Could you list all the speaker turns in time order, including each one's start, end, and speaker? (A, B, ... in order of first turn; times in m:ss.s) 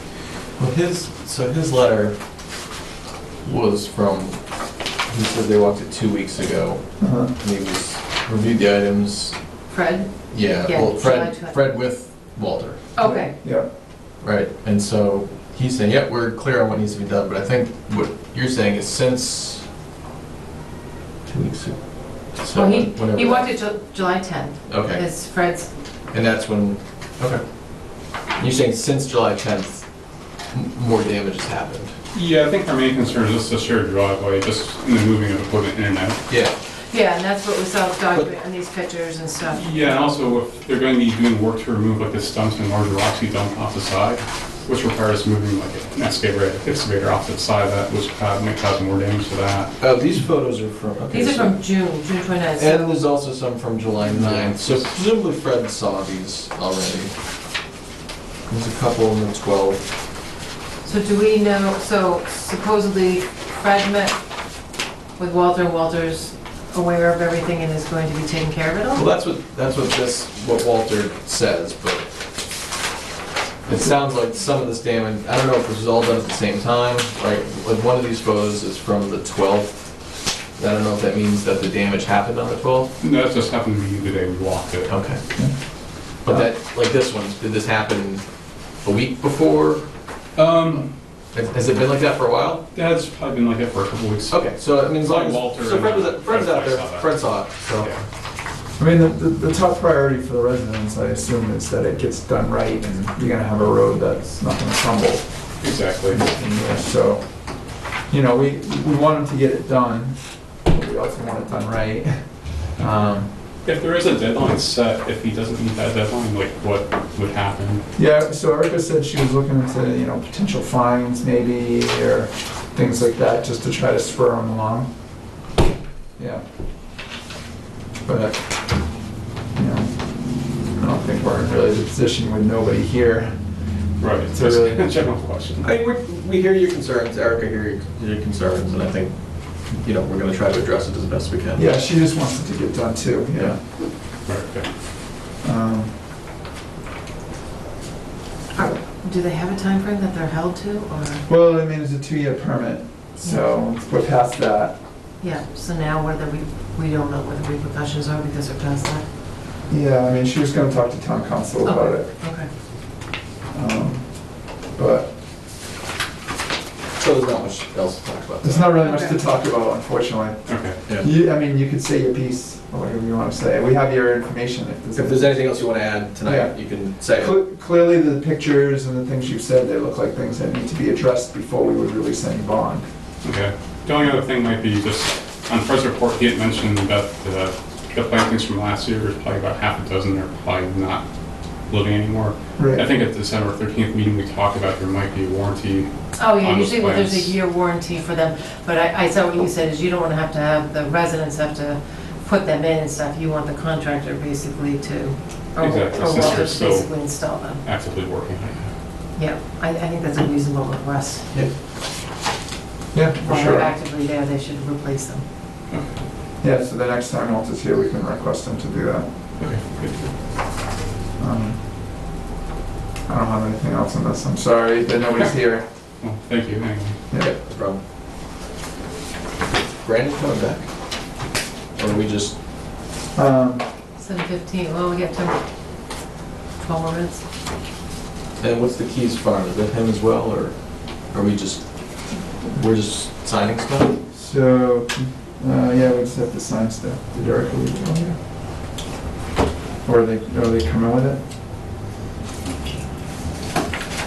0:00.6-0:02.2 A
0:03.4-0:04.4 A
0:05.1-0:09.3 A
0:07.0-0:07.3 B
0:09.7-0:11.6 C
0:10.3-0:12.8 A
0:13.0-0:13.4 C
0:13.0-0:13.7 B
0:14.2-0:19.6 A
0:21.3-0:21.8 A
0:22.3-0:23.5 A
0:22.5-0:25.7 C
0:24.7-0:25.0 A
0:26.1-0:27.4 A
0:28.4-0:29.8 A
0:30.5-0:31.9 A
0:32.1-0:36.2 D
0:36.3-0:36.5 A
0:36.9-0:40.1 C
0:39.5-0:49.7 D
0:49.8-0:51.6 A
0:51.1-0:53.0 C
0:52.6-0:57.1 A
0:54.0-0:54.9 D
0:58.5-0:59.9 A
1:00.8-1:04.2 C
1:05.2-1:09.0 C
1:08.9-1:12.0 A
1:13.6-1:19.8 A
1:20.6-1:22.9 A
1:23.0-1:24.9 D
1:24.9-1:25.2 A
1:26.2-1:28.2 A
1:28.8-1:29.8 A
1:30.4-1:30.9 D
1:31.3-1:32.6 A
1:32.7-1:38.0 D
1:34.3-1:37.9 A
1:38.8-1:45.2 B
1:45.6-1:46.2 D
1:46.1-1:47.3 B
1:48.1-1:53.3 B
1:53.6-1:57.8 D
1:58.0-2:04.9 B
2:06.2-2:06.4 B
2:08.0-2:08.4 B
2:09.5-2:09.9 B
2:10.7-2:13.4 B
2:14.0-2:15.7 D
2:14.3-2:15.0 B
2:15.6-2:19.1 A
2:19.7-2:21.7 A
2:21.6-2:23.6 B
2:24.2-2:24.7 D
2:25.4-2:25.9 B
2:28.5-2:31.2 C
2:31.3-2:34.8 B
2:33.2-2:33.5 C
2:35.2-2:39.0 C
2:39.7-2:42.1 B
2:41.6-2:42.5 C
2:43.5-2:45.1 B
2:47.0-2:48.8 A
2:48.4-2:55.5 B
2:48.8-2:49.2 C
2:50.4-2:50.8 D
2:50.9-2:51.2 A
2:54.9-2:57.4 A
2:56.2-2:56.5 B
2:57.1-3:02.8 B
3:03.2-3:11.0 D
3:11.7-3:15.9 D
3:12.6-3:12.9 B
3:16.2-3:27.6 C
3:16.4-3:17.3 D
3:25.6-3:28.7 D
3:29.2-3:31.3 C
3:32.9-3:33.7 B
3:33.2-3:35.2 C
3:35.7-3:36.0 D
3:36.4-3:39.1 B
3:39.4-3:40.1 D
3:41.2-3:41.6 B
3:43.1-3:45.6 B
3:46.0-3:47.0 D
3:47.2-3:47.8 A
3:49.8-3:50.7 A
3:51.8-3:52.3 A
3:53.1-3:53.6 B
3:54.0-3:55.4 C
3:56.6-3:57.2 C
3:58.4-4:00.6 A
4:01.1-4:01.6 A
4:02.5-4:04.0 A
4:04.1-4:08.2 B
4:09.8-4:11.2 B